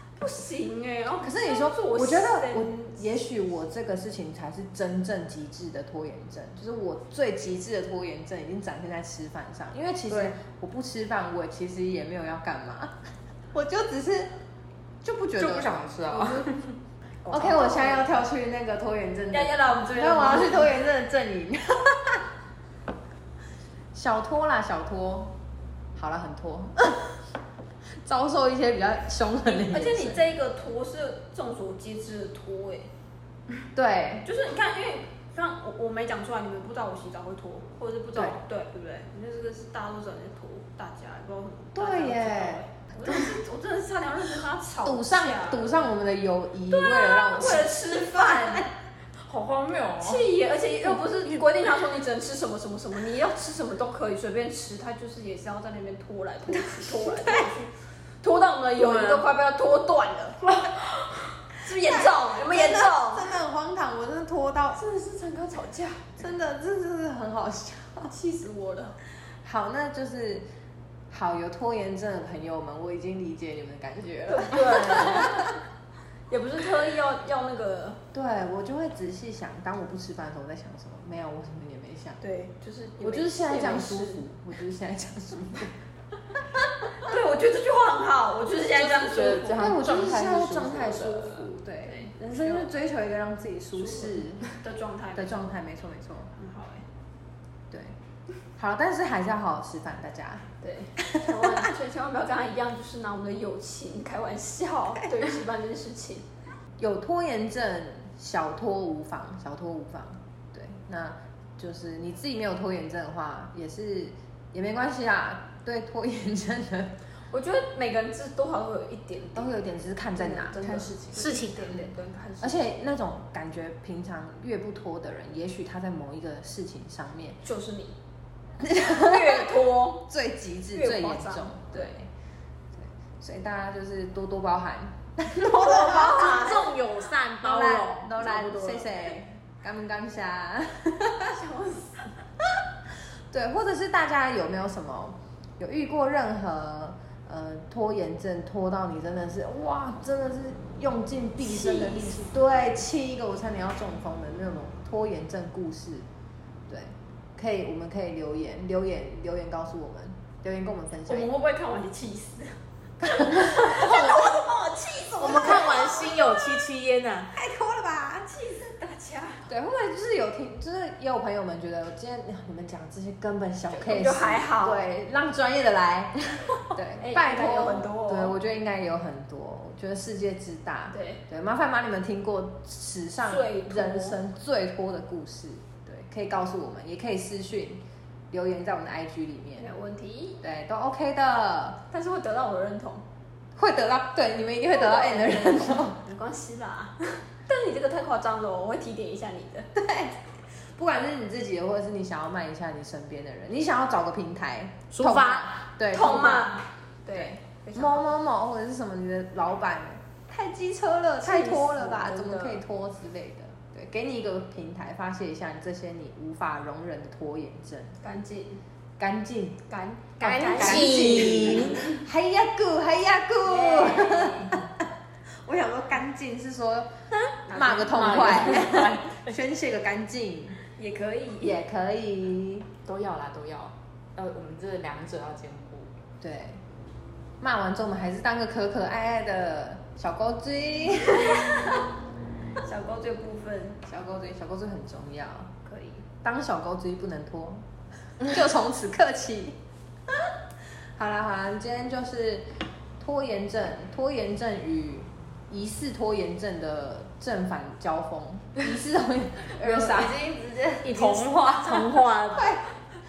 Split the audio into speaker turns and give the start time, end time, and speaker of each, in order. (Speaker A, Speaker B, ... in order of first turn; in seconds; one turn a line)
Speaker A: 0.2-2.7
Speaker B: 1.2-13.0
Speaker B: 13.5-14.3
Speaker B: 15.0-16.5
Speaker C: 15.4-16.7
Speaker A: 17.2-18.2
Speaker B: 17.3-22.2
Speaker A: 19.3-20.7
Speaker B: 23.9-25.3
Speaker B: 25.9-27.1
Speaker B: 28.0-30.2
Speaker A: 29.4-32.9
Speaker B: 33.7-34.3
Speaker A: 34.2-45.8
Speaker B: 41.7-43.1
Speaker B: 44.8-48.4
Speaker A: 46.7-48.7
Speaker C: 49.2-50.2
Speaker A: 50.0-60.4
Speaker B: 56.9-57.4
Speaker D: 58.8-59.3
Speaker A: 61.5-63.4
Speaker B: 61.9-68.1
Speaker A: 65.0-66.1
Speaker A: 68.1-69.0
Speaker B: 69.4-70.5
Speaker B: 71.1-75.5
Speaker A: 74.3-75.5
Speaker A: 76.3-78.0
Speaker B: 78.1-82.2
Speaker A: 82.2-84.2
Speaker B: 83.0-85.7
Speaker A: 87.0-89.7
Speaker C: 88.7-91.5
Speaker B: 89.5-94.4
Speaker A: 91.8-92.7
Speaker A: 93.8-95.5
Speaker B: 95.1-96.3
Speaker A: 96.3-96.8
Speaker B: 97.7-98.0
Speaker B: 98.5-100.5
Speaker A: 100.6-106.2
Speaker B: 101.0-101.6
Speaker B: 106.8-117.0
Speaker A: 117.3-119.6
Speaker B: 119.3-120.9
Speaker A: 120.1-122.7
Speaker D: 121.1-121.8
Speaker B: 122.4-127.4
Speaker A: 127.4-128.0
Speaker B: 128.6-129.5
Speaker A: 128.8-130.1
Speaker B: 130.0-132.1
Speaker A: 130.7-131.9
Speaker B: 132.7-136.5
Speaker A: 135.4-136.7
Speaker D: 135.8-138.9
Speaker B: 137.4-141.3
Speaker A: 141.2-142.1
Speaker B: 143.3-156.1
Speaker A: 151.4-152.2
Speaker B: 156.7-161.3
Speaker A: 161.1-166.3
Speaker B: 163.0-164.1
Speaker D: 163.7-164.3
Speaker D: 165.2-167.3
Speaker B: 165.3-165.7
Speaker B: 167.3-168.3
Speaker A: 168.2-169.5
Speaker B: 169.5-189.7
Speaker A: 173.7-174.8
Speaker A: 177.0-178.4
Speaker A: 180.9-181.2
Speaker A: 183.2-184.2
Speaker A: 189.6-190.4
Speaker B: 190.4-191.8
Speaker A: 191.9-193.0
Speaker B: 193.6-196.0
Speaker A: 194.7-199.7
Speaker B: 199.7-200.1
Speaker B: 200.8-206.6
Speaker D: 204.9-205.5
Speaker A: 205.9-208.1
Speaker B: 207.1-218.0
Speaker A: 211.2-212.6
Speaker A: 218.0-218.6
Speaker B: 219.0-219.6
Speaker A: 219.7-221.9
Speaker B: 220.2-224.8
Speaker D: 220.2-221.8
Speaker C: 220.6-221.4
Speaker A: 223.4-224.6
Speaker B: 225.4-226.9
Speaker A: 227.5-228.8
Speaker B: 227.5-230.6
Speaker C: 227.9-229.3
Speaker D: 228.0-228.8
Speaker A: 230.7-231.6
Speaker B: 231.4-232.7
Speaker C: 232.8-235.9
Speaker B: 236.2-236.6
Speaker B: 237.4-241.6
Speaker A: 241.2-241.8
Speaker A: 242.6-243.8
Speaker B: 243.8-245.5
Speaker A: 245.7-246.1
Speaker B: 246.2-247.7
Speaker B: 248.2-249.6
Speaker B: 250.9-252.5
Speaker B: 253.0-260.1
Speaker C: 259.6-262.0
Speaker D: 260.8-262.5
Speaker B: 262.3-262.7